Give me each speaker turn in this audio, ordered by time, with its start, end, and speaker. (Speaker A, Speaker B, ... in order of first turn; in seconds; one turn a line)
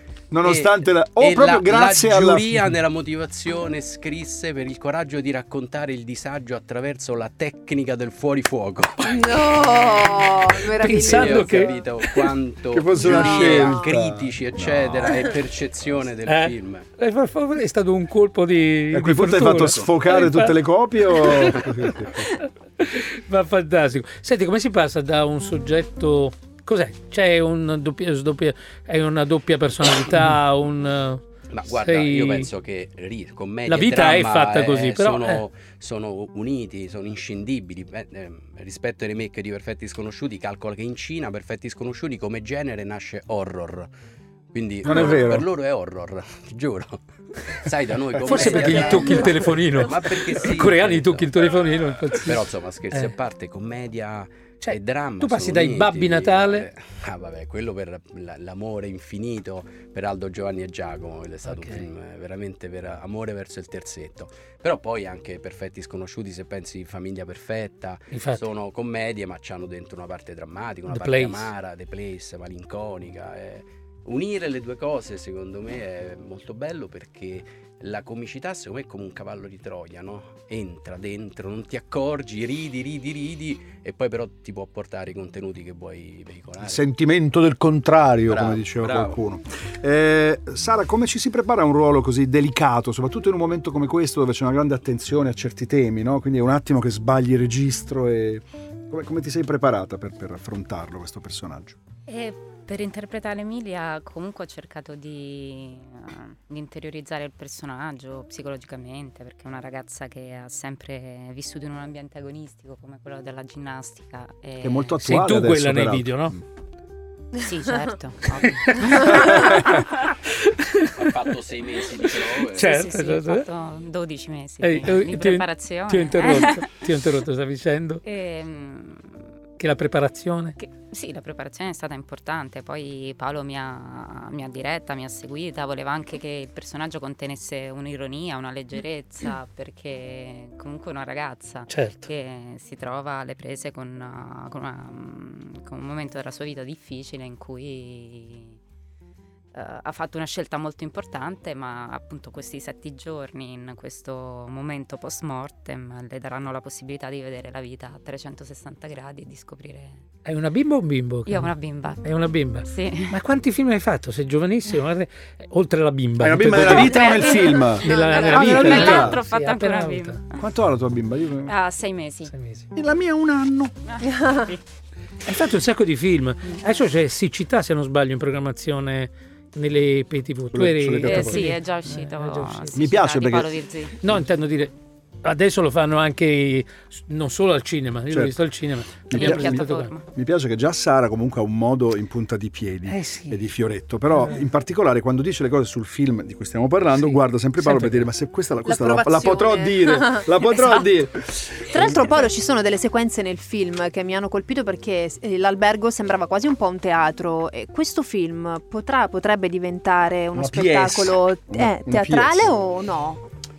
Speaker A: 0.3-2.6
Speaker B: 0.4-16.9
Speaker C: 9.0-11.9
Speaker D: 10.8-11.7
Speaker A: 12.7-15.3
Speaker C: 13.0-13.8
Speaker D: 16.2-32.5
Speaker A: 18.9-22.3
Speaker B: 31.5-43.9
Speaker D: 33.7-35.4
Speaker B: 44.5-51.3
Speaker A: 44.8-45.5
Speaker D: 48.2-53.1
Speaker B: 52.2-86.8
Speaker D: 54.6-56.7
Speaker D: 61.4-61.8
Speaker D: 68.1-68.5
Speaker D: 70.9-71.5
Speaker A: 86.6-101.8
Speaker B: 88.2-89.2
Speaker E: 102.1-115.0
Speaker A: 114.6-116.4
Speaker D: 115.0-116.3
Speaker E: 117.4-120.1
Speaker D: 118.4-121.2
Speaker A: 119.0-119.7
Speaker B: 120.9-122.8
Speaker D: 122.3-123.5
Speaker E: 122.3-126.7
Speaker D: 124.6-128.0
Speaker E: 128.0-129.2
Speaker D: 129.6-130.6
Speaker E: 130.6-148.6
Speaker D: 141.7-142.1
Speaker E: 149.5-160.0
Speaker D: 160.2-170.2
Speaker E: 161.2-163.2
Speaker A: 166.2-169.2
Speaker C: 166.8-167.1
Speaker E: 167.0-170.4
Speaker A: 170.3-171.5
Speaker E: 171.4-172.3
Speaker D: 172.3-172.7
Speaker A: 172.7-173.7
Speaker E: 173.8-174.6
Speaker D: 175.2-182.8
Speaker A: 180.5-181.5
Speaker E: 181.0-184.0
Speaker A: 182.7-183.5
Speaker D: 184.0-189.9
Speaker A: 188.1-188.4
Speaker E: 189.1-190.0
Speaker A: 189.1-202.1
Speaker D: 192.9-193.4
Speaker D: 197.6-198.1
Speaker C: 198.6-200.9
Speaker C: 201.6-213.2
Speaker A: 210.3-212.5